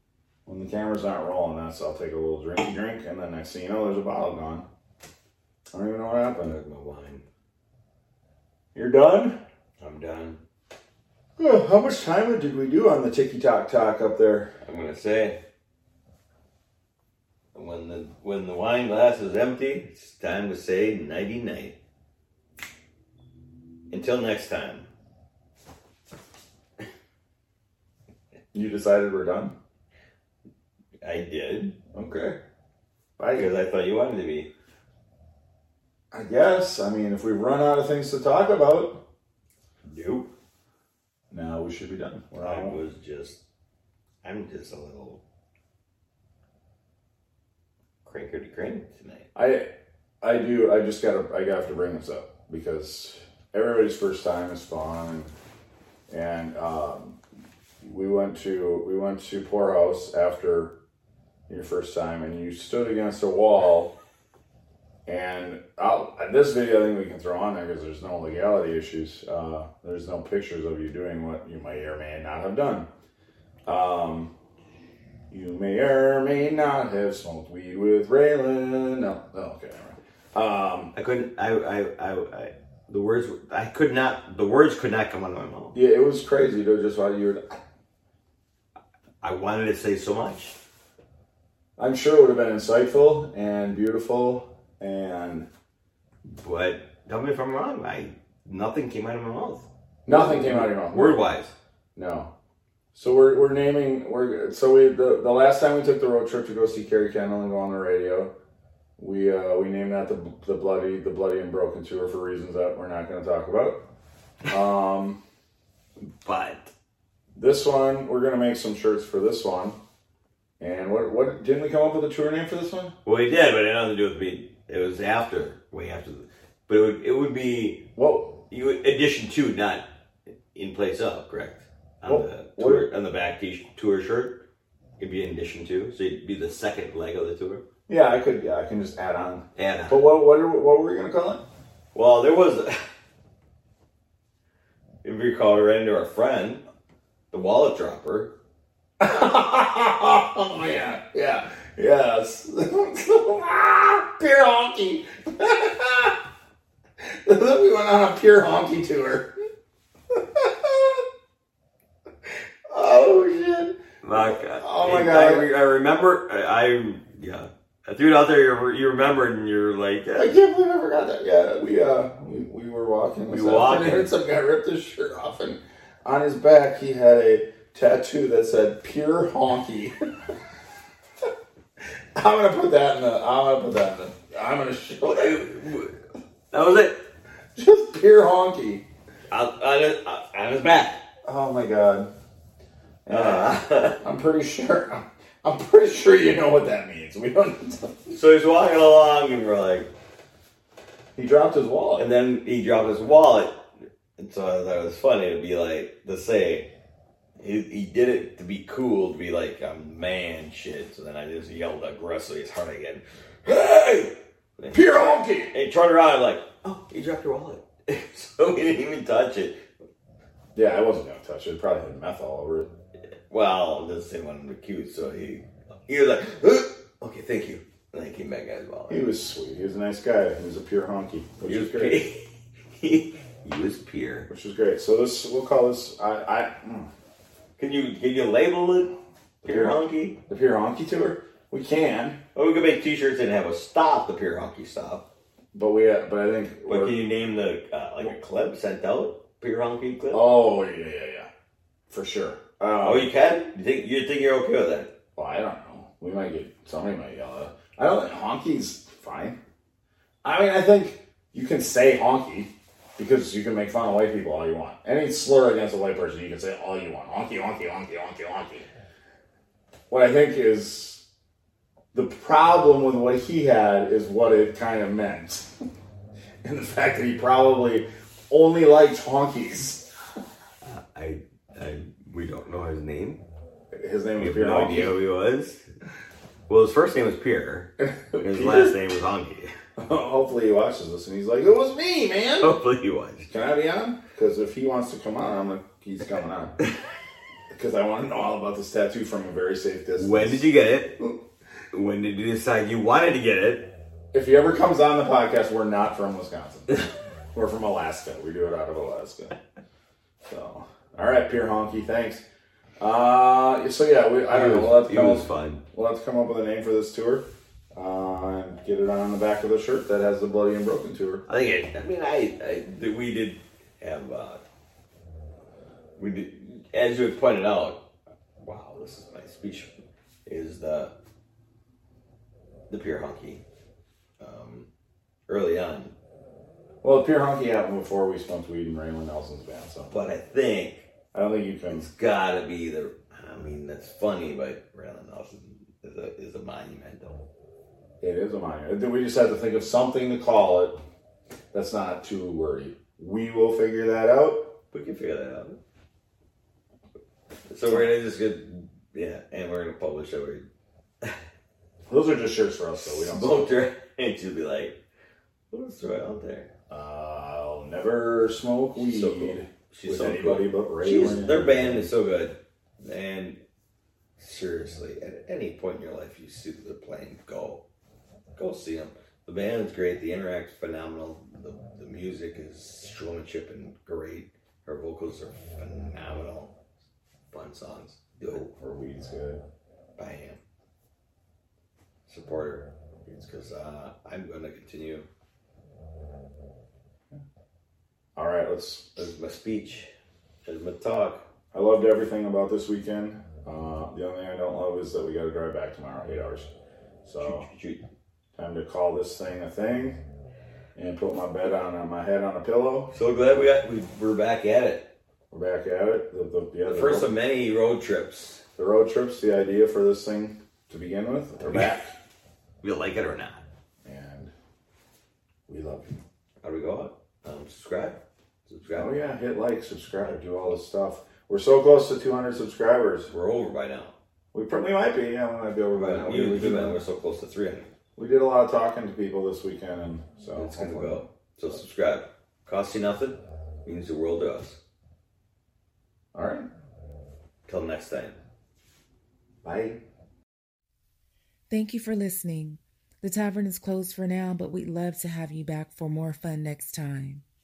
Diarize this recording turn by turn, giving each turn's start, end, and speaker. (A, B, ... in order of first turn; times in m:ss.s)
0:00.5-0:04.7 A
0:05.7-0:06.6 A
0:06.4-0:07.2 B
0:08.7-0:09.4 A
0:09.8-0:10.4 B
0:11.4-0:14.5 A
0:14.6-0:15.4 B
0:17.5-0:21.8 B
0:23.9-0:24.9 B
0:28.5-0:29.6 A
0:31.0-0:31.8 B
0:31.9-0:32.4 A
0:33.2-0:33.5 A
0:33.3-0:34.5 B
0:36.1-0:39.0 A
0:39.8-0:40.3 B
0:41.3-0:42.8 A
0:42.4-0:43.4 B
0:44.2-0:45.2 B
0:48.0-0:49.3 B
0:49.4-0:49.7 A
0:50.2-0:55.3 A
0:56.1-0:57.2 A
0:57.8-1:00.8 A
1:01.5-1:03.9 A
1:05.1-1:12.9 A
1:13.7-1:14.3 A
1:15.3-1:20.9 A
1:20.9-1:25.8 B
1:25.7-1:27.6 A
1:29.2-1:30.6 B
1:31.8-1:35.5 A
1:36.3-1:41.5 B
1:40.1-1:41.2 A
1:42.0-1:42.3 A
1:42.9-1:48.3 A
1:49.0-1:53.9 A
1:54.5-1:55.2 A
1:56.2-1:56.7 B
1:57.4-1:59.8 A
2:00.6-2:02.9 A
2:03.0-2:07.9 B
2:08.0-2:08.4 A
2:08.5-2:09.9 B
2:10.5-2:14.4 B
2:12.0-2:12.9 A
2:15.0-2:17.6 B
2:17.9-2:21.4 A
2:19.6-2:20.1 B
2:21.9-2:22.9 B
2:25.0-2:26.7 B
2:27.3-2:28.3 B
2:29.0-2:36.2 A
2:37.0-2:39.3 A
2:40.1-2:41.0 A
2:42.7-2:45.5 A
2:44.0-2:50.3 B
2:50.2-3:00.0 A
2:53.3-2:54.1 B
3:02.2-3:05.5 A
3:05.0-3:06.0 B
3:06.5-3:07.0 B
3:07.6-3:08.8 A
3:09.3-3:11.0 B
3:11.2-3:12.1 A
3:13.0-3:18.2 A
3:13.1-3:14.0 B
3:18.1-3:19.9 B
3:21.2-3:22.1 A
3:22.0-3:23.6 B
3:24.2-3:26.7 B
3:27.4-3:39.6 B
3:34.7-3:35.5 A
3:40.6-3:42.7 A
3:43.3-3:49.1 B
3:48.9-3:52.0 A
3:51.4-3:54.3 B
3:54.3-3:56.9 A
3:57.6-4:00.2 B
3:59.4-4:02.2 A
4:02.4-4:05.1 B
4:05.5-4:07.0 A
4:06.7-4:10.3 B
4:10.1-4:11.3 A
4:11.9-4:13.1 A
4:12.8-4:14.9 B
4:15.2-4:19.4 A
4:20.2-4:28.7 A
4:29.9-4:31.0 A
4:31.9-4:35.5 A
4:36.4-4:39.9 A
4:40.6-4:43.2 B
4:43.7-4:45.0 A
4:44.2-4:45.7 B
4:46.5-4:49.5 B
4:47.8-4:48.8 A
4:49.8-4:52.5 A
4:52.4-4:53.3 B
4:53.3-4:56.6 A
4:57.5-5:01.2 A
5:00.0-5:01.0 B
5:01.7-5:03.7 B
5:04.1-5:06.8 A
5:07.3-5:09.4 A
5:10.2-5:12.2 A
5:12.8-5:21.2 A
5:14.3-5:15.6 B
5:21.3-5:24.4 B
5:26.0-5:27.9 B
5:28.4-5:29.7 B
5:30.3-5:30.9 B
5:32.7-5:33.4 B
5:34.2-5:34.7 B
5:35.3-5:36.0 B
5:36.8-5:39.9 A
5:39.9-5:40.9 B
5:41.1-5:41.9 A
5:41.7-5:47.2 B
5:48.0-5:50.8 A
5:51.5-5:54.6 A
5:54.7-5:55.6 B
5:57.5-6:00.5 B
6:01.9-6:03.5 A
6:02.8-6:04.8 B
6:05.5-6:06.5 B
6:06.7-6:11.9 A
6:08.8-6:13.4 B
6:14.2-6:17.6 B
6:18.4-6:26.6 B
6:27.3-6:28.5 B
6:28.2-6:29.4 A
6:30.0-6:30.4 B
6:32.1-6:35.1 B
6:38.2-6:38.9 A
6:39.0-6:39.9 B
6:40.4-6:41.2 B
6:41.5-6:46.5 A
6:47.0-6:47.5 A
6:47.2-6:47.9 B
6:48.4-6:50.0 A
6:50.8-6:52.9 A
6:52.9-6:54.9 B
6:55.3-6:57.1 A
6:56.7-6:58.4 B
6:58.6-7:01.9 A
7:01.5-7:01.8 B
7:02.6-7:03.4 B
7:03.8-7:04.3 A
7:05.5-7:06.0 A
7:06.4-7:08.9 B
7:08.7-7:13.1 A
7:13.1-7:13.9 B
7:14.3-7:16.8 A
7:15.7-7:17.7 B
7:18.0-7:21.6 A
7:20.4-7:24.6 B
7:26.1-7:26.5 A
7:27.5-7:28.2 B
7:29.4-7:29.8 A
7:31.5-7:37.2 C